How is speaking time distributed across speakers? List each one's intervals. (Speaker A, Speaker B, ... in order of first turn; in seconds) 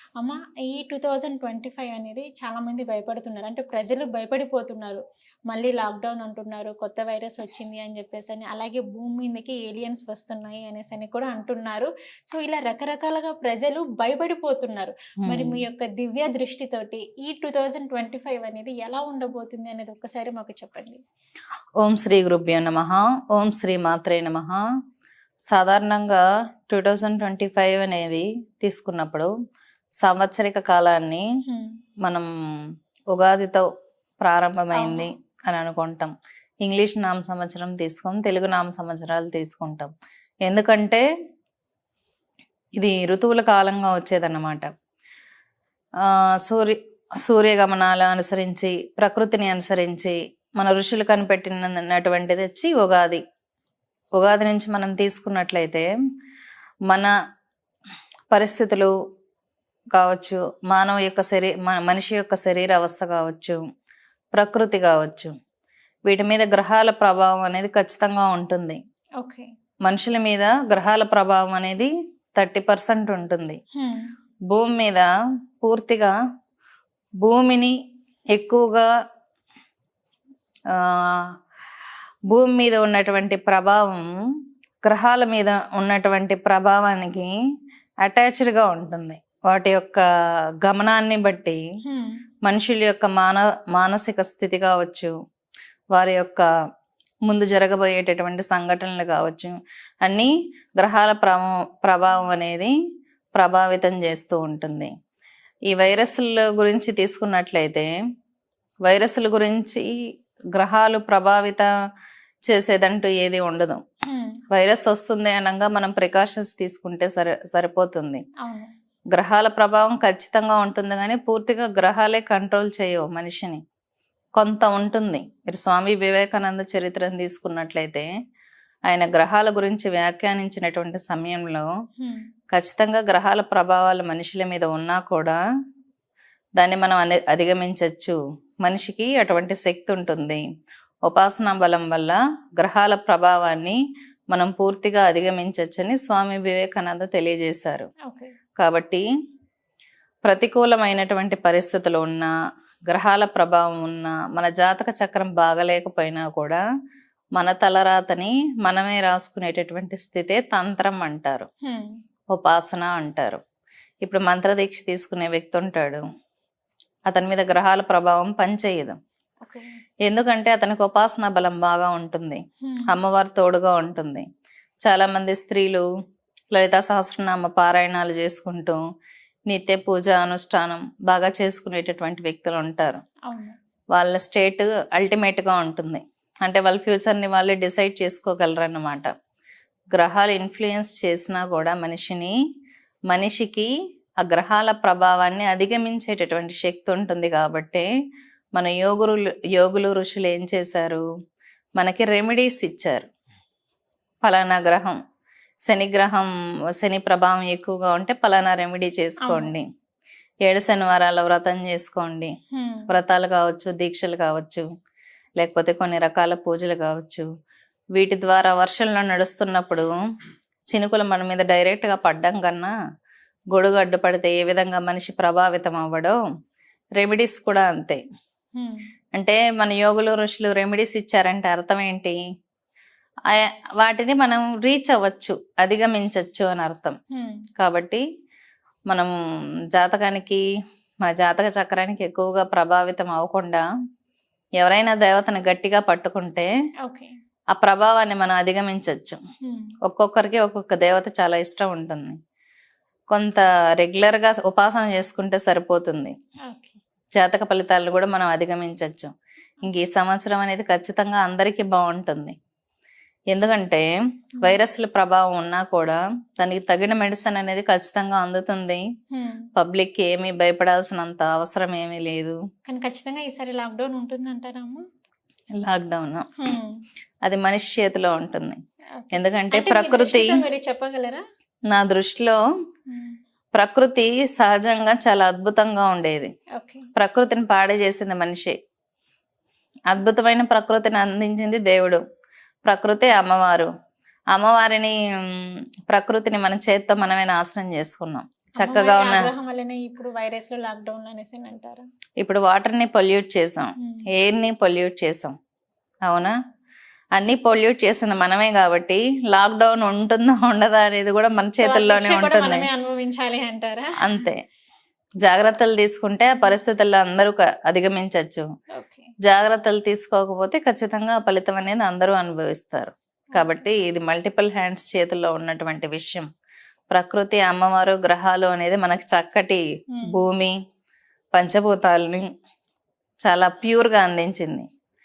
Speaker A: 0.2-21.0, 34.7-35.1, 69.2-69.5, 73.8-74.1, 91.8-92.2, 114.1-114.4, 118.4-118.7, 132.0-132.3, 148.1-148.3, 161.7-162.0, 169.4-169.8, 172.6-172.9, 183.3-183.6, 209.2-209.5, 212.5-212.9, 237.1-237.4, 246.8-247.1, 249.4-249.7, 256.5-256.8, 269.1-269.5, 272.7-274.8, 276.4-276.8, 279.0-281.2, 282.9-283.2, 286.6-286.9, 298.6-301.9, 303.8-304.1, 311.6-314.2, 318.8-319.1, 323.4-323.6, 329.9-330.2
Speaker B: 15.2-15.6, 21.8-24.6, 25.5-29.3, 30.0-31.3, 33.1-33.7, 34.2-36.1, 36.6-39.9, 40.5-41.0, 42.8-44.7, 46.0-53.2, 54.2-55.9, 58.3-58.9, 60.0-63.6, 64.3-65.3, 66.1-68.8, 69.9-73.6, 74.5-75.1, 75.6-76.1, 77.2-77.8, 78.3-78.9, 80.7-81.3, 82.3-84.1, 84.8-87.3, 88.0-90.0, 90.6-91.6, 92.5-95.1, 95.9-96.5, 97.3-102.7, 103.4-104.9, 105.7-107.9, 108.8-109.9, 110.6-111.7, 112.5-113.8, 114.5-118.2, 119.1-123.6, 124.4-128.1, 128.9-131.7, 132.5-135.4, 136.6-140.4, 141.1-143.8, 144.3-147.9, 148.6-149.1, 150.3-152.3, 152.9-156.6, 157.4-161.5, 162.3-163.4, 164.0-166.0, 167.1-169.0, 170.1-174.3, 174.8-175.9, 176.5-178.8, 179.5-183.0, 183.9-189.1, 189.9-192.4, 193.1-193.7, 194.2-197.9, 198.6-201.1, 201.8-203.1, 204.2-205.0, 205.7-209.7, 210.5-212.3, 212.9-214.7, 215.4-217.3, 218.0-219.9, 220.7-222.7, 223.5-226.2, 227.0-228.0, 229.2-232.2, 233.3-237.0, 237.6-238.0, 239.7-240.4, 241.1-243.6, 244.6-246.5, 247.5-249.2, 249.8-252.2, 253.1-256.1, 257.2-259.1, 259.6-262.4, 263.3-268.8, 269.6-272.4, 275.6-276.5, 277.2-278.6, 279.1-280.4, 281.7-282.4, 283.6-286.3, 287.0-288.5, 289.9-292.0, 292.7-293.7, 294.3-299.3, 302.2-305.3, 306.1-306.4, 307.2-312.7, 314.0-314.4, 315.2-318.5, 319.3-326.3, 326.9-330.6, 331.3-332.3, 333.2-334.7